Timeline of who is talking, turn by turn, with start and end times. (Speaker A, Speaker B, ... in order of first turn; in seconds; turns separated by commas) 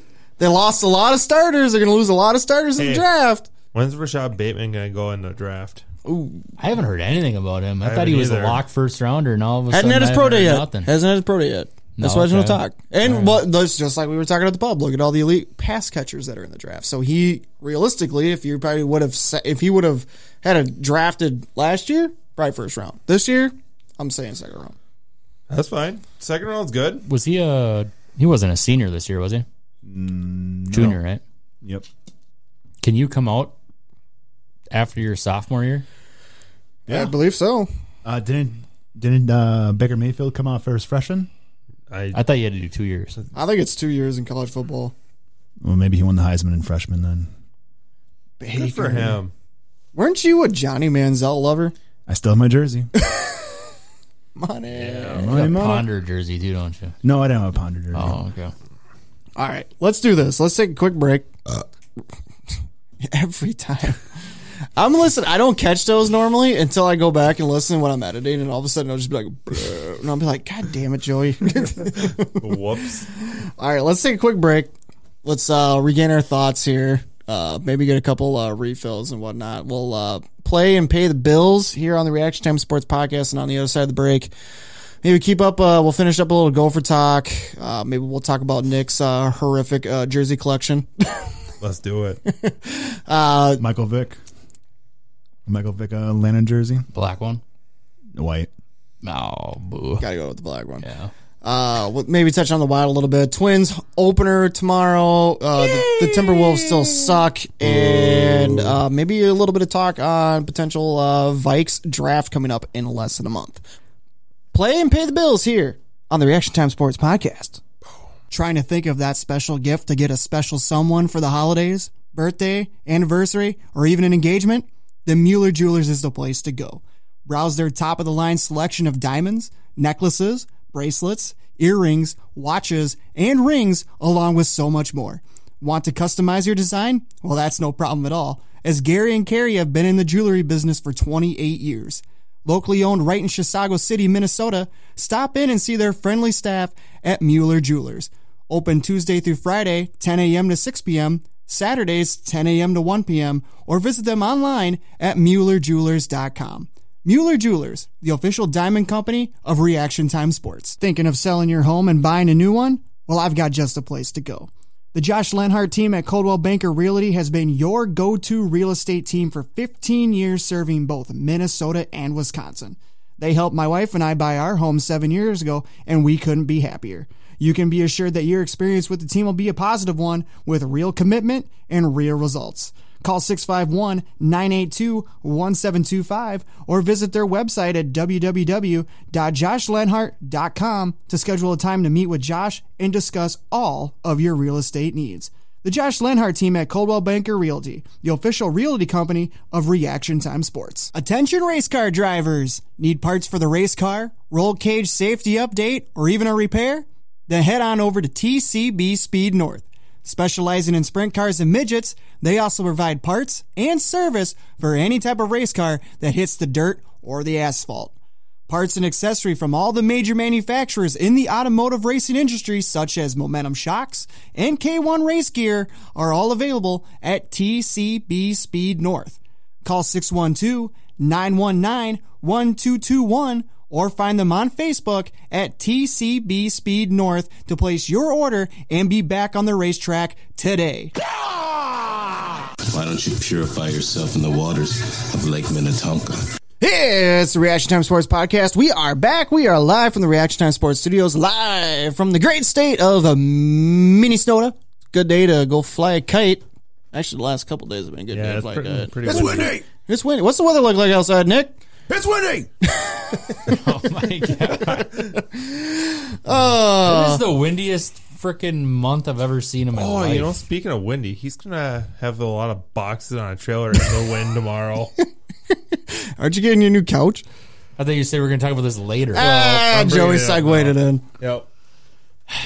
Speaker A: 0.4-3.5, Speaker B: 2.8-3.1, Speaker B: 3.6-5.8, Speaker A: 6.0-6.4, Speaker C: 6.6-10.9, Speaker B: 7.8-8.6, Speaker A: 9.7-24.7, Speaker C: 11.9-13.3, Speaker B: 25.5-27.0, Speaker C: 27.1-29.4, Speaker D: 29.8-31.0, Speaker C: 30.7-31.2, Speaker C: 32.8-33.5, Speaker C: 34.7-35.9, Speaker D: 36.9-37.1, Speaker A: 36.9-37.7, Speaker D: 38.0-41.3, Speaker B: 41.9-42.2, Speaker C: 42.1-43.2, Speaker A: 43.3-44.9, Speaker D: 45.6-47.3, Speaker A: 48.4-49.2, Speaker B: 48.5-49.3, Speaker A: 49.9-51.7, Speaker D: 52.1-52.9, Speaker A: 53.0-53.3, Speaker A: 54.4-55.3, Speaker B: 54.7-55.3, Speaker D: 55.1-55.9, Speaker C: 55.3-56.9, Speaker D: 57.0-58.2, Speaker C: 57.9-58.5, Speaker A: 59.4-61.6, Speaker A: 63.0-64.0, Speaker A: 64.8-72.6, Speaker B: 72.4-73.0, Speaker A: 73.6-74.7, Speaker A: 75.2-84.3, Speaker A: 85.0-90.9, Speaker B: 91.6-92.2, Speaker A: 92.3-93.6, Speaker D: 93.6-94.2, Speaker D: 95.5-96.8, Speaker C: 96.9-97.4, Speaker D: 98.1-98.5, Speaker C: 99.0-100.0, Speaker A: 100.0-100.8, Speaker C: 100.8-101.1, Speaker A: 101.4-113.6, Speaker B: 108.2-108.5, Speaker A: 114.5-117.6, Speaker A: 118.3-217.9, Speaker A: 218.5-240.9, Speaker E: 242.7-246.2, Speaker A: 246.6-261.6, Speaker B: 258.1-259.6, Speaker D: 259.1-259.6, Speaker D: 261.9-262.5, Speaker A: 262.8-263.5, Speaker C: 263.5-264.8, Speaker A: 264.7-267.2, Speaker C: 266.3-270.4, Speaker B: 269.7-274.9, Speaker A: 275.5-277.2, Speaker C: 277.8-279.3, Speaker A: 279.1-281.0, Speaker B: 279.2-281.5